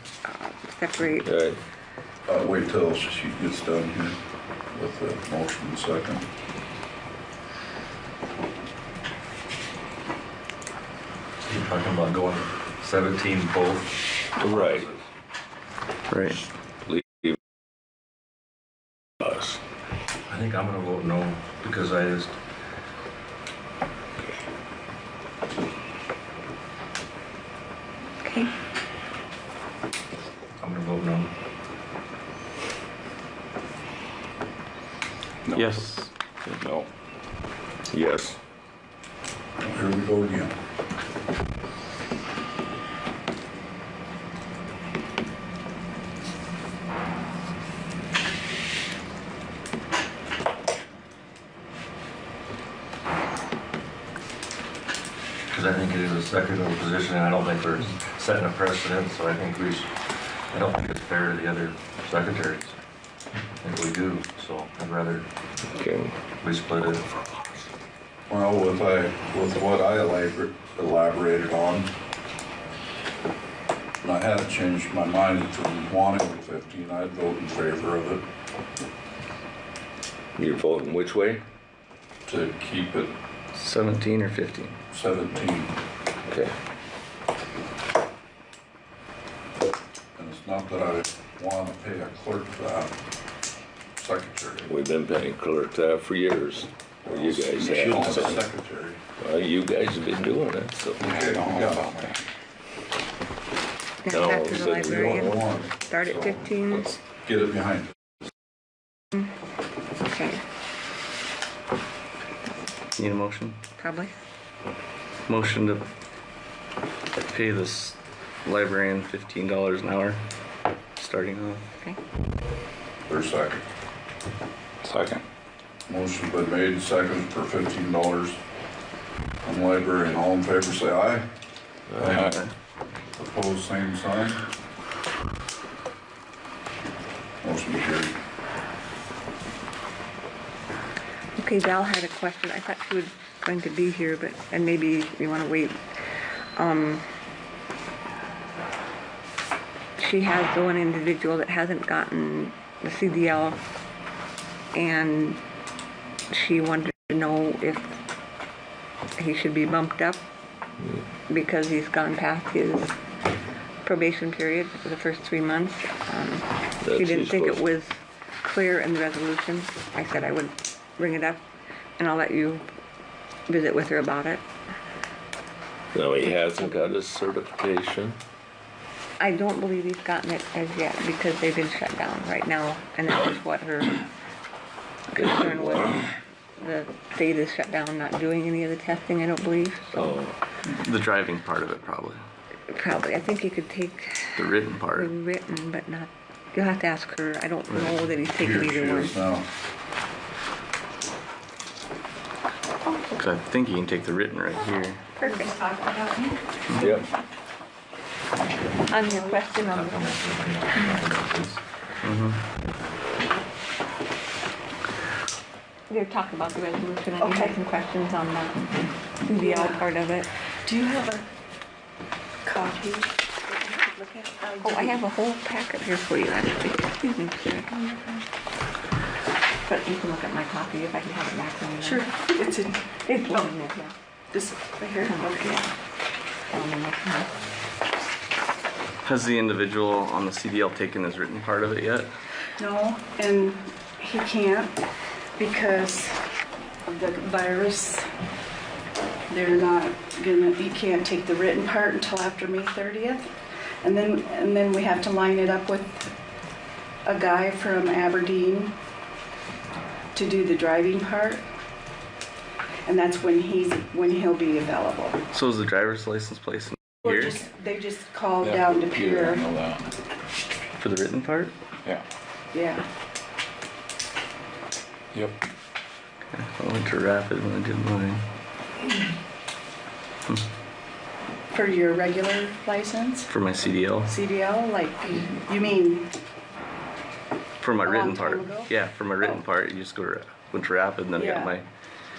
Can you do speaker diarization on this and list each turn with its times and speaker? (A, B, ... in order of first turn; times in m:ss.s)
0:00.2-0:01.3 A
0:01.2-0:01.6 B
0:02.3-0:04.2 C
0:04.7-0:06.2 C
0:11.4-0:15.0 D
0:14.4-0:14.9 B
0:16.1-0:16.4 E
0:16.8-0:17.4 B
0:19.2-0:19.6 B
0:20.3-0:22.4 D
0:28.2-0:28.5 A
0:30.6-0:31.3 D
0:35.5-0:36.1 E
0:36.6-0:36.8 C
0:37.9-0:38.4 B
0:39.6-0:40.5 C
0:55.5-0:59.9 D
1:00.5-1:02.8 D
1:03.6-1:05.2 D
1:05.7-1:06.1 B
1:06.4-1:07.0 D
1:08.3-1:11.9 C
1:14.0-1:18.2 C
1:20.4-1:21.4 B
1:22.2-1:23.1 C
1:23.5-1:24.8 E
1:24.9-1:25.7 C
1:26.2-1:26.5 B
1:30.2-1:32.9 C
1:34.0-1:34.7 C
1:34.6-1:38.4 B
1:37.1-1:39.0 C
1:39.2-1:42.2 B
1:41.0-1:42.1 C
1:44.0-1:46.9 A
1:44.1-1:45.4 B
1:44.4-1:47.9 C
1:50.0-1:50.4 A
1:53.0-1:53.6 E
1:53.8-1:54.1 A
1:55.3-1:55.8 E
1:57.3-2:00.2 E
2:01.0-2:01.6 E
2:03.1-2:03.6 C
2:04.8-2:05.2 B
2:05.9-2:08.4 C
2:09.4-2:11.2 C
2:11.9-2:12.3 C
2:12.1-2:12.4 B
2:12.2-2:12.5 E
2:13.1-2:14.4 C
2:17.4-2:18.2 C
2:21.4-2:25.8 A
2:26.6-2:27.0 A
2:30.0-2:33.6 A
2:34.7-2:35.4 A
2:36.3-2:38.0 A
2:39.2-2:40.2 A
2:41.3-2:42.9 A
2:43.8-2:51.4 A
2:46.8-2:47.6 B
2:52.0-2:52.6 A
2:53.5-2:54.4 A
2:55.9-2:58.2 B
2:56.2-2:56.9 A
2:59.2-3:04.0 A
3:05.1-3:06.1 A
3:05.2-3:06.0 B
3:06.6-3:10.2 A
3:09.9-3:10.3 B
3:10.7-3:12.2 E
3:12.7-3:19.1 A
3:14.4-3:15.1 E
3:17.7-3:18.0 E
3:18.4-3:19.5 C
3:22.8-3:23.2 A
3:23.2-3:25.1 E
3:24.6-3:25.5 A
3:25.2-3:26.4 F
3:26.8-3:27.0 B
3:28.9-3:30.2 A
3:29.1-3:31.6 D
3:32.0-3:32.4 E
3:35.9-3:40.3 A
3:37.2-3:37.6 F
3:39.3-3:39.9 F
3:40.6-3:41.3 F
3:42.4-3:45.0 F
3:44.6-3:48.2 A
3:49.6-3:52.1 A
3:51.8-3:52.8 F
3:53.0-3:53.9 A
3:54.3-3:55.4 F
3:55.0-3:55.7 A
3:56.5-3:57.3 A
3:59.0-4:02.1 E
4:02.6-4:04.7 F
4:05.4-4:06.2 F
4:06.9-4:08.0 F
4:09.3-4:13.3 F
4:13.8-4:16.1 F
4:17.0-4:18.7 F
4:20.1-4:21.4 F
4:22.8-4:25.2 F
4:25.3-4:27.4 E
4:27.0-4:29.4 F
4:28.4-4:29.9 B
4:30.8-4:31.5 E
4:32.5-4:32.8 F
4:36.3-4:38.2 E
4:41.5-4:43.3 F
4:43.3-4:44.1 E
4:44.0-4:46.1 F
4:47.6-4:51.7 E
4:47.8-4:48.7 F
4:51.1-4:51.5 F